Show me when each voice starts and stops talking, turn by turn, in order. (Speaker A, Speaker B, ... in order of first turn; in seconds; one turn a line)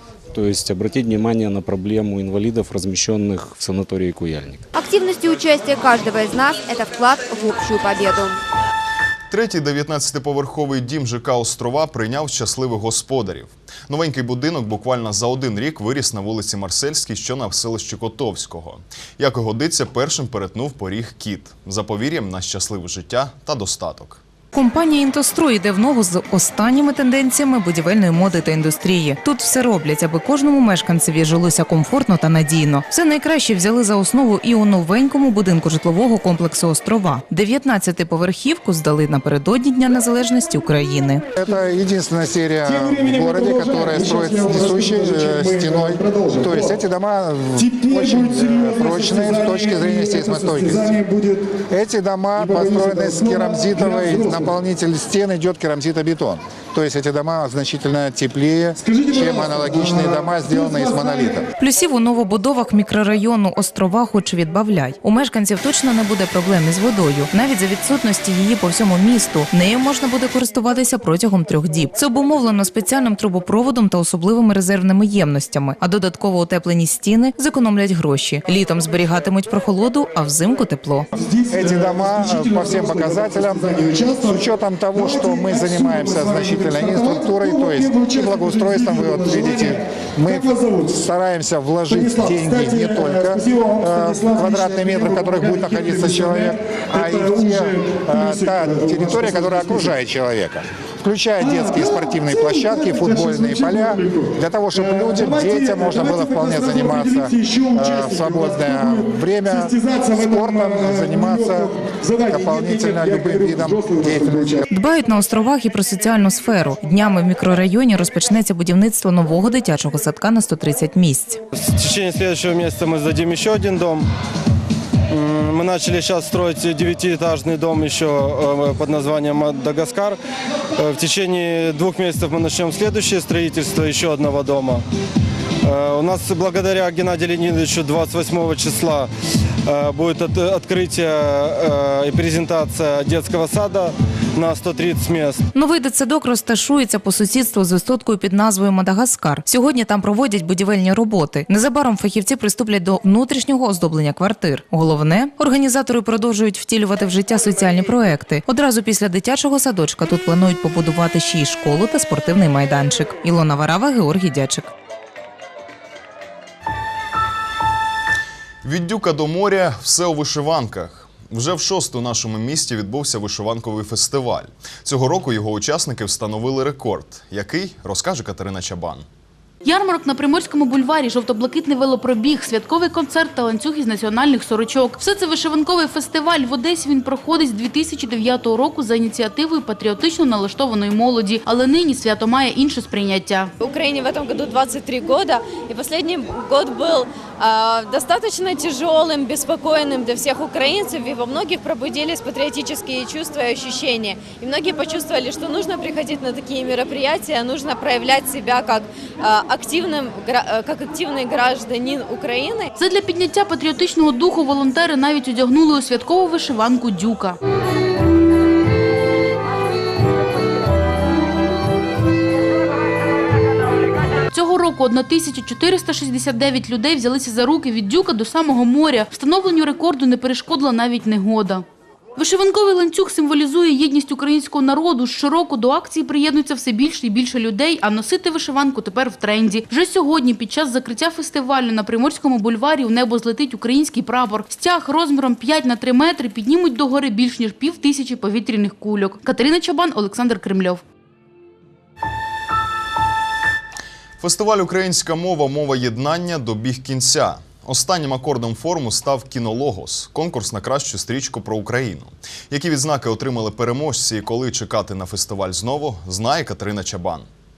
Speaker A: 0.3-4.6
Speaker B: 4.8-8.4
Speaker C: 9.3-24.2
Speaker D: 24.5-41.2
Speaker E: 41.4-51.0
Speaker F: 42.6-46.8
Speaker F: 47.6-51.6
Speaker E: 51.7-61.4
Speaker F: 52.4-54.5
Speaker F: 58.8-61.4
Speaker D: 61.6-81.1
Speaker F: 81.2-91.1
Speaker E: 81.5-114.7
Speaker F: 91.9-100.0
Speaker F: 101.4-114.6
Speaker D: 114.7-121.4
Speaker F: 121.8-124.0
Speaker F: 125.1-130.1
Speaker F: 130.8-134.8
Speaker F: 135.7-139.1
Speaker F: 139.7-145.4
Speaker D: 145.5-164.7
Speaker C: 168.6-179.1
Speaker G: 179.6-193.5
Speaker H: 193.6-212.7
Speaker G: 212.8-217.4
Speaker G: 224.3-231.6
Speaker G: 232.2-250.8
Speaker C: 254.2-267.3